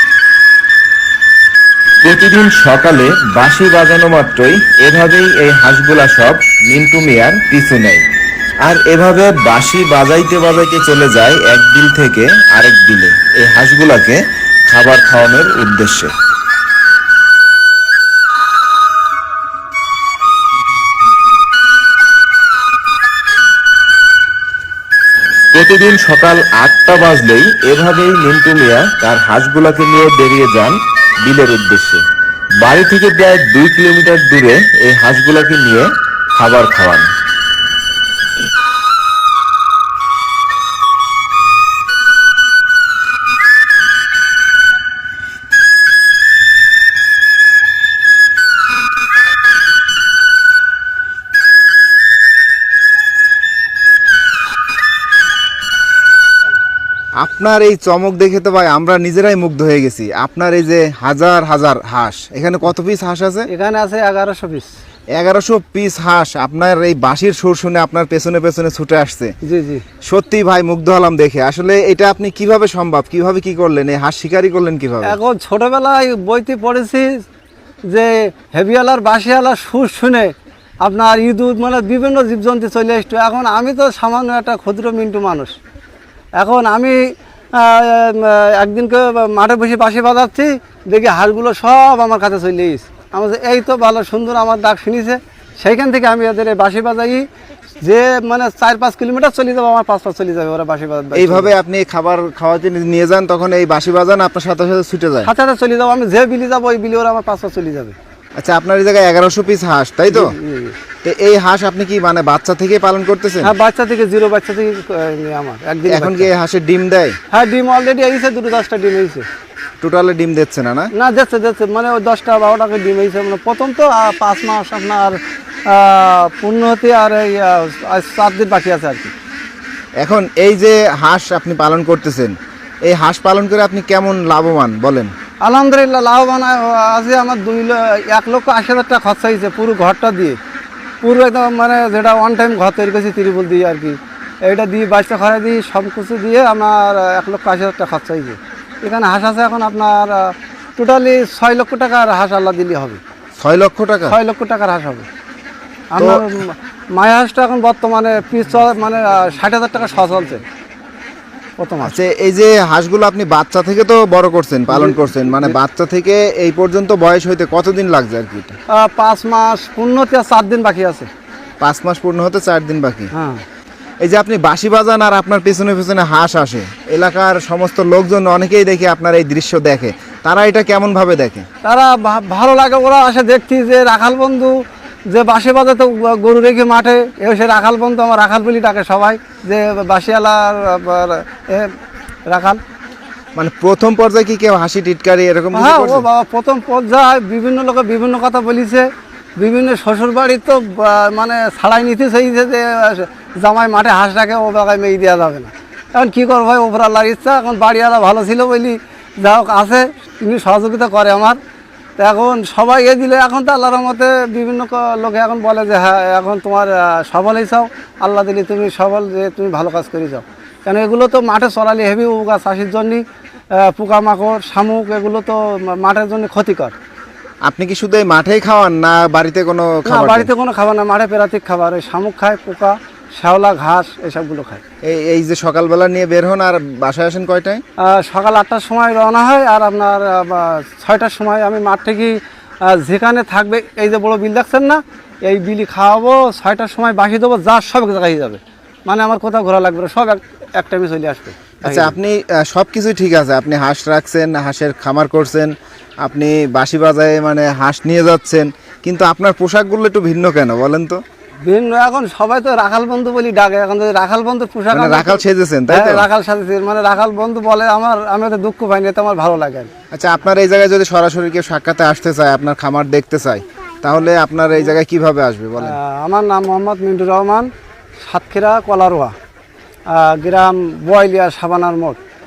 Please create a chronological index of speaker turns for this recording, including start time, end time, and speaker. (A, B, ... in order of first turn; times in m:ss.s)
0:02.0-0:08.0 A
0:08.6-0:16.1 A
0:25.5-0:32.0 A
0:32.6-0:37.1 A
0:57.2-1:03.5 A
1:03.5-1:04.7 B
1:05.2-1:09.3 A
1:09.4-1:09.8 B
1:10.1-1:15.2 A
1:15.0-1:17.1 B
1:17.9-1:20.3 B
1:20.8-1:25.6 B
1:26.4-1:27.0 B
1:27.5-1:37.2 B
1:37.8-1:41.5 B
1:41.2-1:45.3 A
1:45.2-1:48.0 B
1:48.4-1:50.3 A
1:50.1-1:50.8 B
1:51.0-1:53.5 A
1:53.4-1:56.3 B
1:55.9-1:57.2 A
1:57.3-1:59.2 B
1:59.8-2:00.9 A
2:01.0-2:05.2 B
2:05.7-2:09.1 B
2:10.0-2:12.4 A
2:12.9-2:15.1 A
2:15.4-2:20.4 B
2:21.0-2:33.0 B
2:33.4-2:34.2 A
2:34.1-2:35.1 B
2:35.9-2:40.4 B
2:36.0-2:36.3 A
2:41.6-2:42.0 B
2:41.8-2:48.6 A
2:44.7-2:45.6 B
2:48.8-2:51.1 B
2:51.6-2:53.1 A
2:53.1-2:53.4 B
2:54.0-3:01.5 A
3:01.6-3:04.5 B
3:05.1-3:11.7 B
3:12.3-3:12.6 B
3:13.4-3:16.1 A
3:15.5-3:18.9 B
3:19.4-3:31.4 B
3:32.0-3:43.0 B
3:43.6-3:46.7 B
3:47.5-3:50.3 A
3:49.8-3:54.6 B
3:54.8-3:57.6 A
3:57.9-4:12.0 B
4:11.6-4:15.5 A
4:16.0-4:21.0 A
4:21.5-4:29.7 B
4:24.7-4:26.1 A
4:29.9-4:35.8 A
4:35.6-4:37.5 B
4:38.0-4:39.1 B
4:39.9-4:42.0 B